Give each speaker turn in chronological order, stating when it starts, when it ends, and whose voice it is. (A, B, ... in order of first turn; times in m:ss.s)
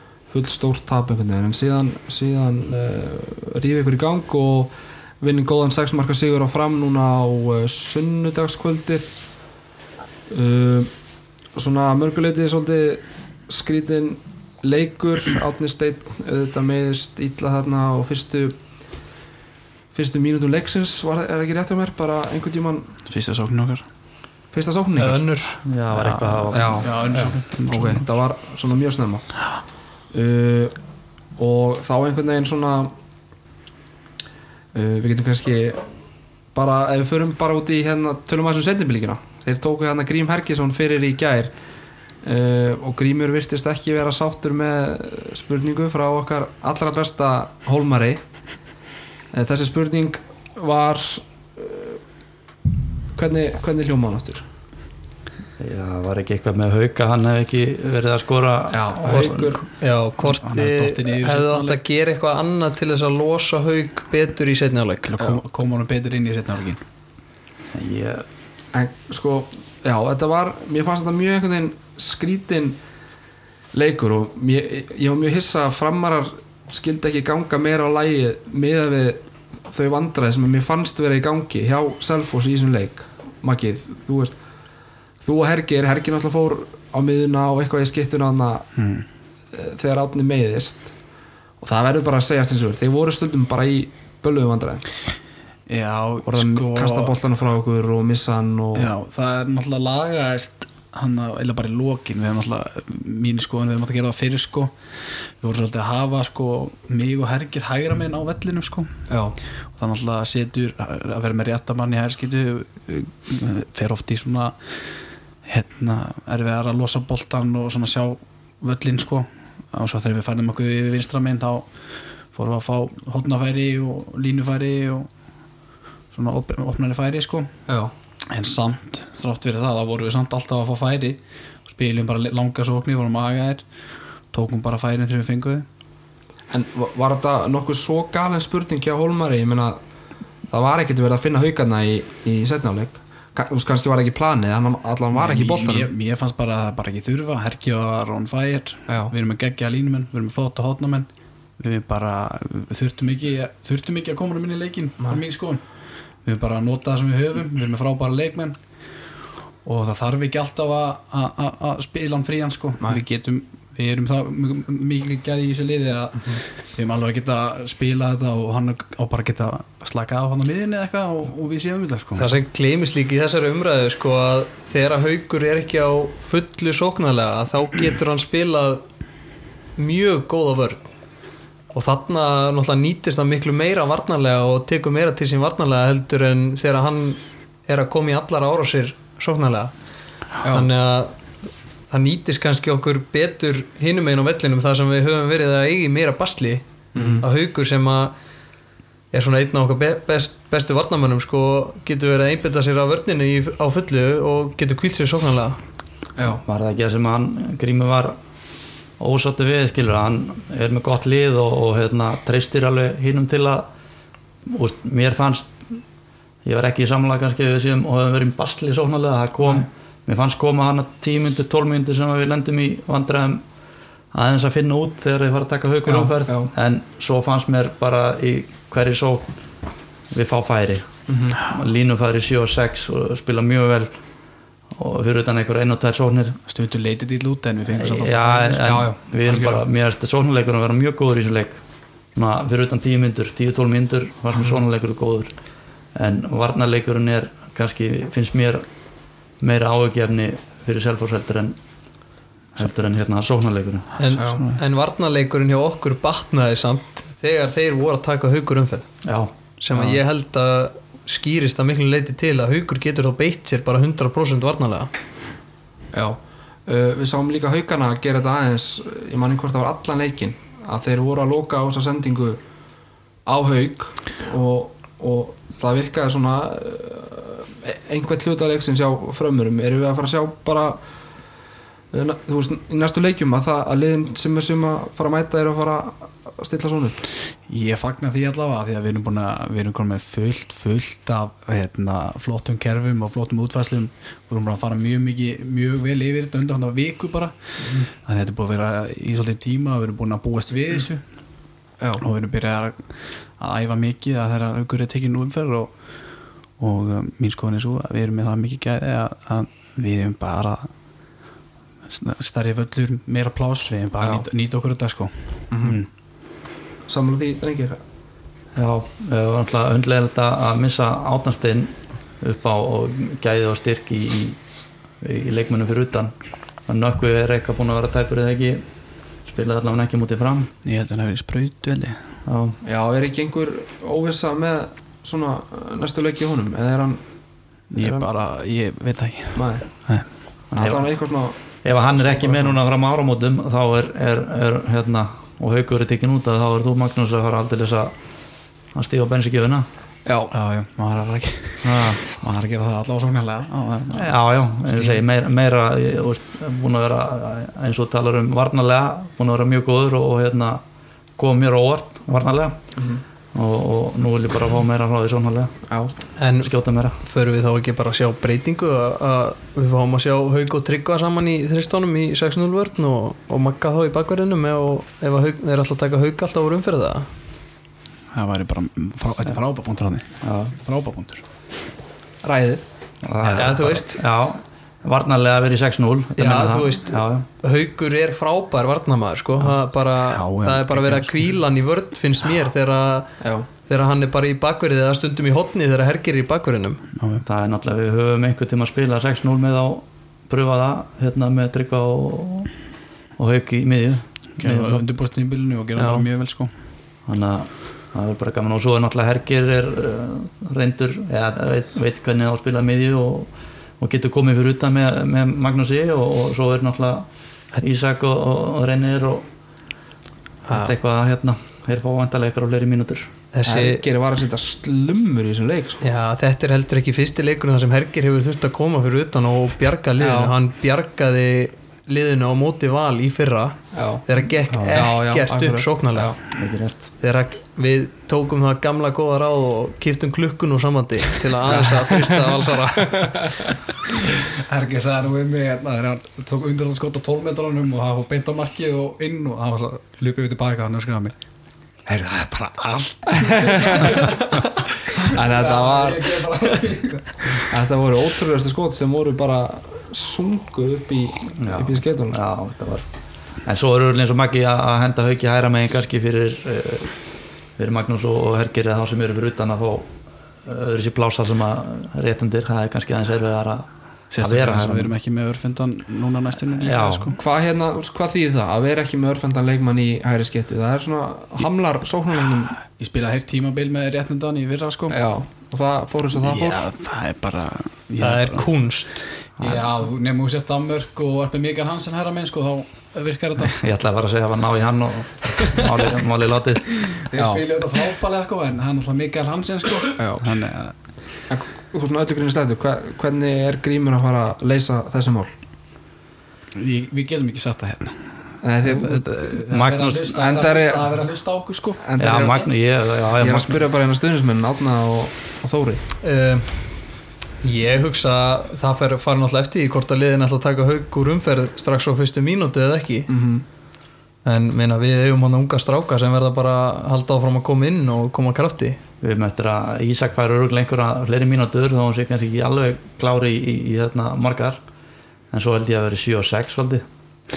0:00.3-0:09.2 A
0:10.3-0:10.9 A
0:11.5-0:18.6 A
0:19.9-0:22.9 A
0:23.1-0:23.9 B
0:24.5-0:25.3 A
0:25.0-0:25.6 C
0:25.6-0:27.3 D
0:25.9-0:28.1 B
0:26.5-0:29.3 A
0:30.1-0:30.8 A
0:31.4-0:32.9 A
0:34.7-0:35.9 A
0:36.5-0:41.5 A
0:42.2-0:48.2 A
0:49.3-0:52.0 A
0:53.1-0:54.5 A
0:55.6-0:59.5 D
0:58.7-0:59.6 A
0:59.1-1:05.1 C
1:00.2-1:01.8 B
1:05.0-1:06.8 B
1:07.7-1:08.2 D
1:08.7-1:12.8 A
1:13.7-1:24.4 A
1:25.2-1:28.7 A
1:28.8-1:29.1 B
1:29.5-1:31.0 A
1:31.6-1:34.8 A
1:35.7-1:37.2 B
1:36.3-1:38.9 A
1:38.8-1:44.7 B
1:45.4-1:48.9 B
1:49.1-1:49.4 A
1:49.7-1:54.6 B
1:55.5-2:01.7 B
2:02.3-2:05.1 B
2:06.1-2:07.5 B
2:07.7-2:07.9 A
2:08.3-2:13.6 B
2:14.3-2:15.7 B
2:16.5-2:19.8 A
2:20.5-2:25.9 A
2:25.2-2:31.1 B
2:28.9-2:29.1 A
2:31.6-2:35.6 B
2:36.2-2:38.6 B
2:39.6-2:52.3 B
2:52.2-2:58.8 C
2:59.8-3:00.8 C
3:01.7-3:09.7 C
3:10.4-3:10.7 A
3:10.4-3:11.1 C
3:11.9-3:18.1 C
3:17.0-3:17.3 A
3:19.1-3:25.6 C
3:26.2-3:26.4 A
3:26.3-3:28.2 D
3:29.0-3:33.7 D
3:34.5-3:35.8 D
3:36.4-3:43.4 D
3:44.1-3:49.3 D
3:45.9-3:46.5 A
3:50.1-3:54.0 D
3:51.1-3:51.4 A
3:54.8-3:56.4 D
3:56.5-3:58.9 B
3:57.8-4:01.6 D
3:58.6-3:59.6 A
4:02.2-4:05.3 D
4:06.0-4:08.7 D
4:09.4-4:11.6 D
4:12.6-4:13.9 D
4:14.0-4:18.9 C
4:14.1-4:14.6 B
4:14.1-4:14.4 A
4:19.0-4:19.3 D
4:19.6-4:24.9 C
4:25.9-4:32.4 A
4:33.3-4:40.8 A
4:41.9-4:47.0 A
4:47.5-5:01.0 B
5:02.0-5:05.7 B
5:06.6-5:10.7 B
5:11.9-5:15.9 B
5:14.0-5:14.3 A
5:15.5-5:15.8 A
5:16.9-5:17.8 A
5:18.6-5:24.4 D
5:25.0-5:26.1 D
5:26.7-5:28.6 D
5:29.3-5:30.5 D
5:30.6-5:32.0 B
5:32.3-5:32.6 D
5:32.6-5:37.0 A
5:37.7-5:38.1 A
5:37.7-5:40.1 B
5:39.4-5:39.7 A
5:40.5-5:40.9 D
5:40.6-5:42.6 A
5:41.6-5:47.9 D
5:48.7-5:49.7 D
5:50.1-5:50.3 A
5:50.3-5:54.1 B
5:51.6-5:52.0 D
5:53.9-6:00.6 D
5:54.7-5:55.0 B
6:01.2-6:02.6 D
6:02.8-6:03.0 A
6:03.3-6:05.6 D
6:06.2-6:17.1 C
6:06.4-6:07.0 D
6:18.1-6:21.2 B
6:20.2-6:20.6 D
6:22.2-6:22.7 A
6:23.0-6:27.2 D
6:23.4-6:24.0 C
6:26.2-6:36.8 C
6:30.0-6:31.4 B
6:33.2-6:33.5 A
6:37.0-6:37.2 B
6:37.2-6:42.5 D
6:43.2-6:44.8 D
6:44.4-6:46.5 B
6:45.8-6:46.0 C
6:47.1-6:59.3 D
7:00.5-7:03.1 D
7:03.3-7:03.8 C
7:03.4-7:05.9 A
7:05.8-7:16.2 C
7:10.0-7:10.4 A
7:13.7-7:14.0 A
7:14.5-7:14.9 D
7:14.7-7:16.2 A
7:16.4-7:16.8 D
7:17.0-7:23.4 C
7:21.5-7:22.3 A
7:23.0-7:23.5 A
7:24.1-7:31.1 B
7:31.9-7:37.5 B
7:33.3-7:34.0 A
7:35.0-7:36.3 A
7:37.4-7:42.2 A
7:41.4-7:42.9 D
7:43.4-7:46.9 D
7:47.6-7:49.9 D
7:50.4-7:54.9 D
7:54.1-7:57.2 B
7:56.6-7:57.2 D
7:57.2-8:02.6 A
8:02.7-8:05.0 B
8:04.9-8:06.7 A
8:06.2-8:08.5 B
8:08.0-8:09.1 C
8:09.4-8:13.6 B
8:13.5-8:16.8 D
8:16.9-8:20.8 B
8:17.2-8:17.4 A
8:20.0-8:20.2 A
8:21.3-8:25.3 A
8:26.6-8:31.9 B
8:28.4-8:29.2 A
8:29.5-8:30.0 D
8:30.1-8:30.9 A
8:31.8-8:32.5 A
8:32.0-8:33.6 D
8:33.2-8:35.8 A
8:36.0-8:36.7 C
8:37.4-8:43.1 C
8:43.1-8:43.4 A
8:44.2-8:48.8 C
8:49.0-8:54.6 D
8:55.3-8:56.8 D